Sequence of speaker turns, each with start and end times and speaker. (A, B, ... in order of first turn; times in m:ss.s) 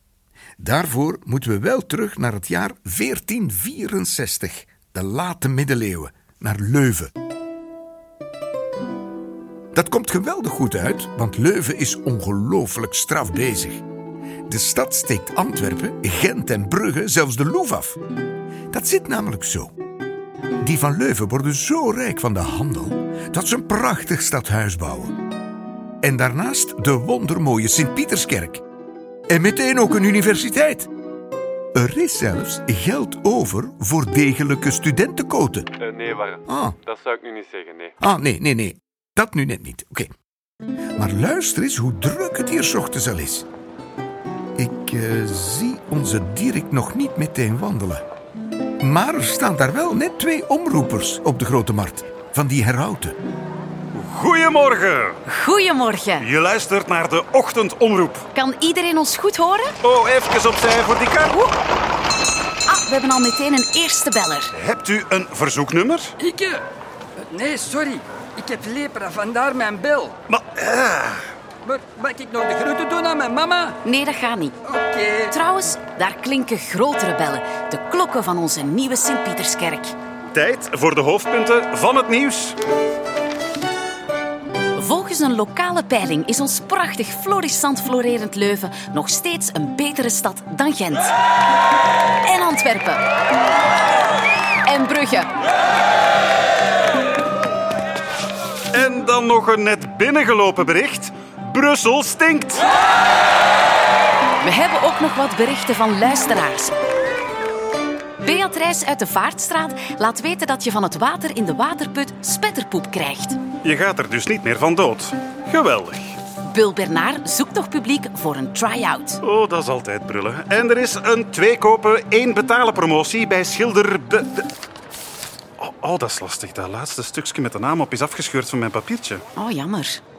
0:00.6-0:07.1 A
0:09.7-0:13.8 A
0:14.5-0:18.0 A
0:18.7-0:19.7 A
0:20.6-0:25.2 A
0:26.0-0:28.6 A
0:29.3-0:30.9 A
0:31.7-0:35.8 A
0:35.8-0:37.9 B
0:36.4-0:36.8 A
0:38.0-0:40.1 A
0:41.0-0:43.5 A
0:44.6-0:48.0 A
0:48.8-0:53.2 A
0:53.9-0:55.2 C
0:55.3-0:56.3 D
0:56.2-0:58.3 C
0:58.3-0:59.8 D
0:59.8-1:01.4 C
1:02.7-1:04.5 D
1:04.6-1:06.2 C
1:06.2-1:06.6 E
1:07.2-1:10.2 E
1:10.3-1:11.3 C
1:11.6-1:13.8 E
1:13.8-1:14.6 D
1:14.7-1:15.3 E
1:15.3-1:20.0 D
1:20.3-1:22.6 C
1:24.8-1:31.1 D
1:32.2-1:33.0 D
1:34.7-1:35.3 D
1:38.7-1:42.7 C
1:44.4-1:46.7 D
1:48.2-1:53.4 D
1:53.6-1:56.2 C
1:56.5-1:59.2 D
1:59.2-2:04.5 C
2:05.6-2:09.2 C
2:09.4-2:10.0 D